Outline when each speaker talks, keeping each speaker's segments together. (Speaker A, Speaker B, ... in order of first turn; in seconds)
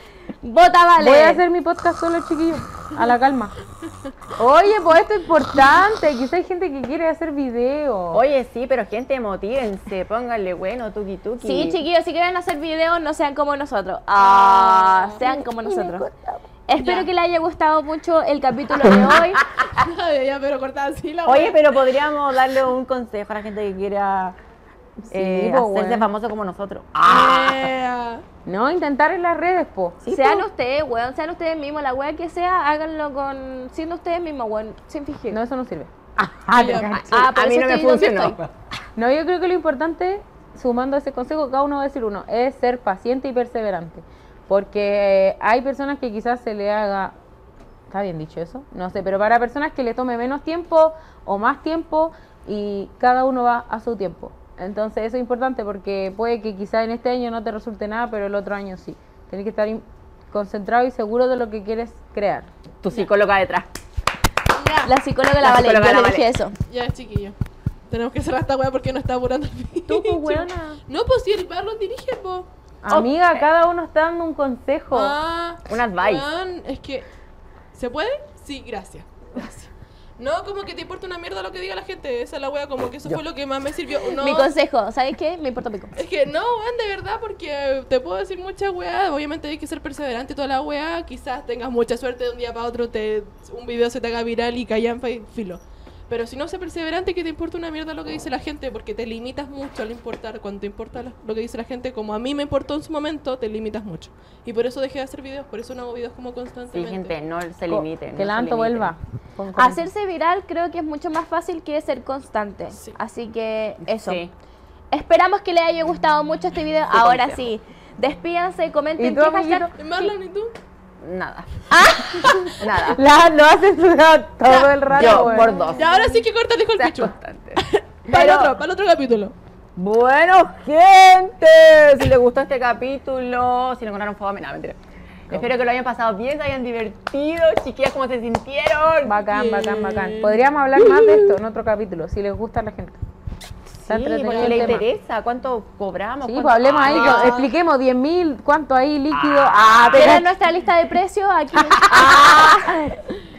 Speaker A: 0.4-1.4, 11.4-16.1, 16.7-19.4, 30.1-35.4, 37.1-38.4, 64.8-66.5, 84.2-85.9, 109.5-114.2, 114.9-120.1, 144.3-144.7, 146.8-147.5, 149.9-152.7
Speaker B: 1.0-3.5, 4.4-8.2, 15.2-16.4, 25.0-26.1, 28.4-30.0, 35.3-35.9, 36.5-37.2, 39.0-47.1, 47.9-62.5, 69.9-70.8, 72.8-75.2, 107.7-109.8, 119.0-119.7, 121.7-125.7, 139.0-143.0, 143.9-144.8, 146.2-150.2
Speaker C: 8.1-11.8, 14.2-15.2, 16.8-17.1, 21.2-24.4, 25.1-27.7, 30.0-30.5, 36.2-38.5, 62.8-63.7, 65.4-66.3, 75.7-76.2, 106.7-108.9, 114.0-114.3, 116.9-117.5, 121.0-121.5, 122.5-123.0, 124.9-125.9, 126.8-128.5, 129.8-134.8, 135.3-139.2, 143.8-147.5, 149.1-150.2, 151.8-152.7
Speaker D: 19.8-21.6, 27.1-28.2, 36.5-37.0, 64.5-64.9, 66.7-67.3, 67.9-72.5, 74.9-77.0, 77.7-84.5, 86.0-107.1, 112.7-113.0, 119.8-120.5, 124.5-129.3, 139.3-141.3